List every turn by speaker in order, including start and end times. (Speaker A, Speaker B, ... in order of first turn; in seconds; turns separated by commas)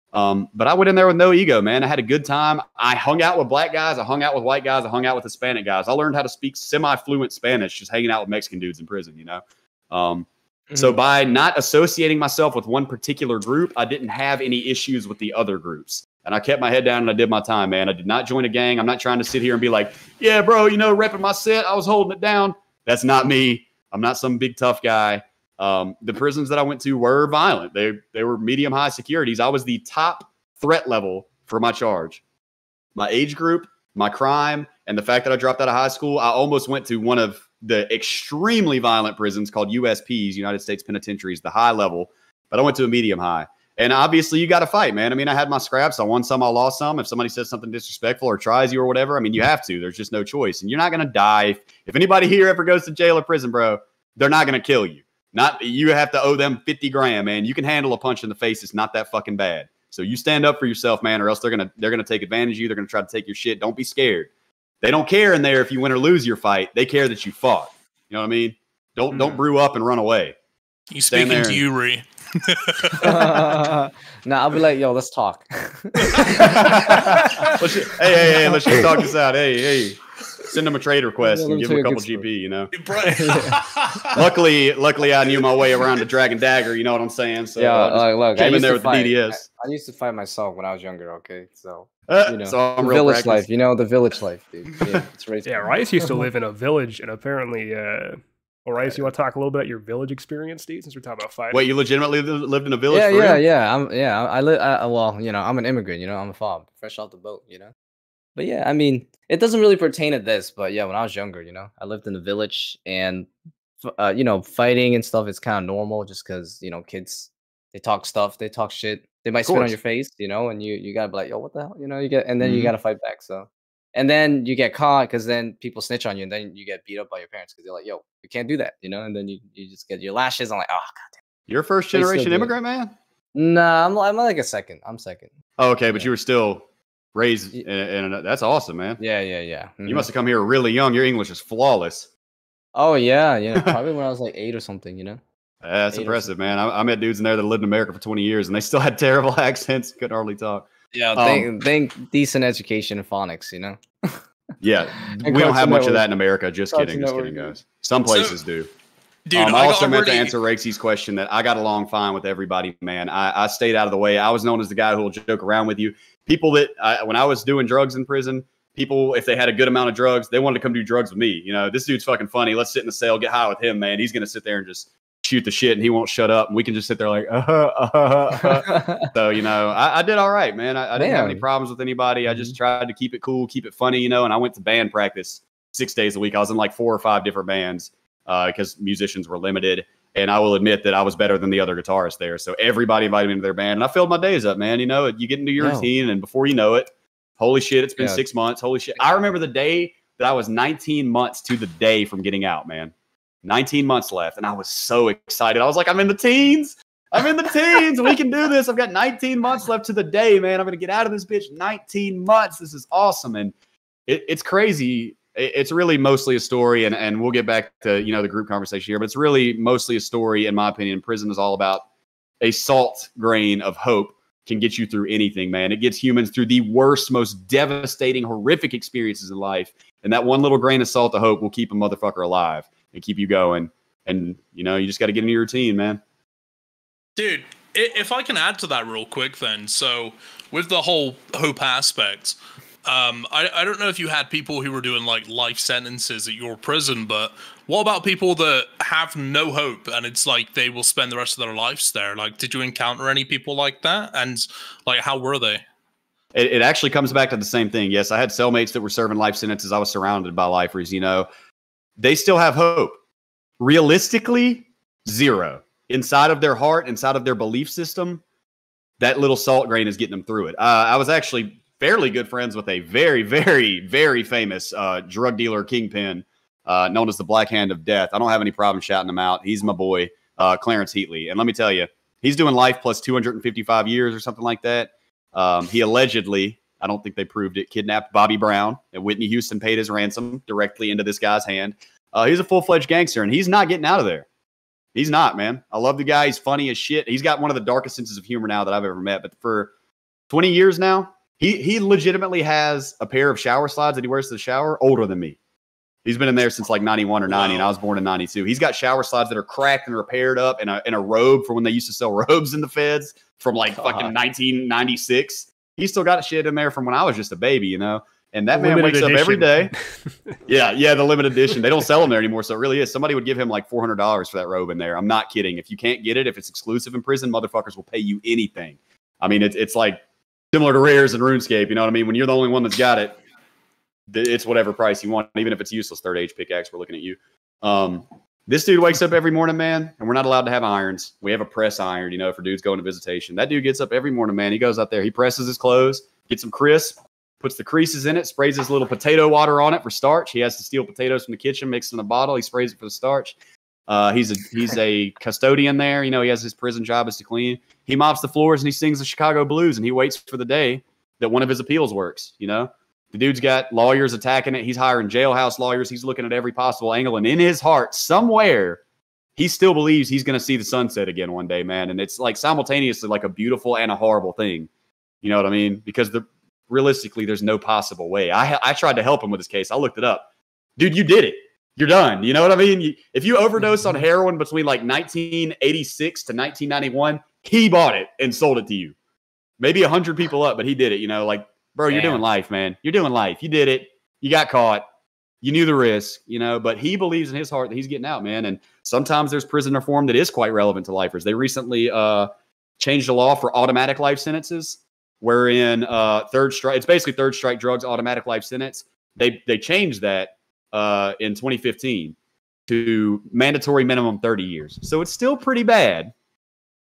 Speaker A: 0.1-32.2, Speaker A: 33.0-64.3, Speaker A: 64.8-70.3, Speaker B: 70.9-73.4, Speaker A: 71.1-71.6, Speaker C: 73.0-77.5, Speaker A: 76.3-82.7, Speaker C: 81.2-82.2, Speaker B: 82.7-84.2, Speaker C: 83.0-83.7, Speaker A: 84.0-89.4, Speaker C: 87.6-96.3, Speaker A: 92.1-93.5, Speaker D: 95.5-101.6, Speaker A: 101.5-103.4, Speaker C: 102.9-107.7, Speaker C: 108.4-113.3, Speaker C: 113.8-131.1, Speaker A: 119.4-119.8, Speaker A: 122.4-122.7, Speaker A: 131.5-132.9, Speaker C: 131.9-132.5, Speaker C: 133.3-135.3, Speaker A: 135.6-136.6, Speaker A: 137.2-139.0, Speaker C: 139.0-140.1, Speaker A: 139.9-142.1, Speaker C: 142.8-145.2, Speaker A: 145.6-151.5, Speaker C: 145.9-146.3, Speaker C: 150.9-154.2, Speaker A: 154.6-158.7, Speaker C: 155.2-156.0, Speaker C: 156.7-157.5, Speaker B: 158.1-158.4, Speaker B: 159.3-160.3, Speaker A: 159.3-202.9, Speaker C: 178.6-179.1, Speaker C: 181.0-181.4, Speaker C: 195.6-195.9, Speaker A: 203.4-213.5, Speaker A: 214.1-221.8, Speaker A: 222.4-236.0, Speaker B: 237.2-255.6, Speaker A: 256.4-261.3, Speaker A: 262.0-263.0, Speaker A: 263.6-268.2, Speaker A: 269.0-294.3, Speaker A: 294.9-299.7, Speaker A: 300.3-305.4, Speaker A: 306.1-319.7, Speaker B: 307.3-307.7, Speaker C: 313.8-314.1, Speaker D: 318.5-320.2, Speaker A: 320.5-333.2, Speaker A: 334.1-353.4, Speaker A: 353.9-368.8, Speaker A: 369.4-374.7, Speaker A: 375.2-380.3, Speaker A: 380.8-388.9, Speaker A: 389.6-394.8, Speaker C: 391.9-392.2, Speaker A: 395.4-412.1, Speaker A: 412.7-416.1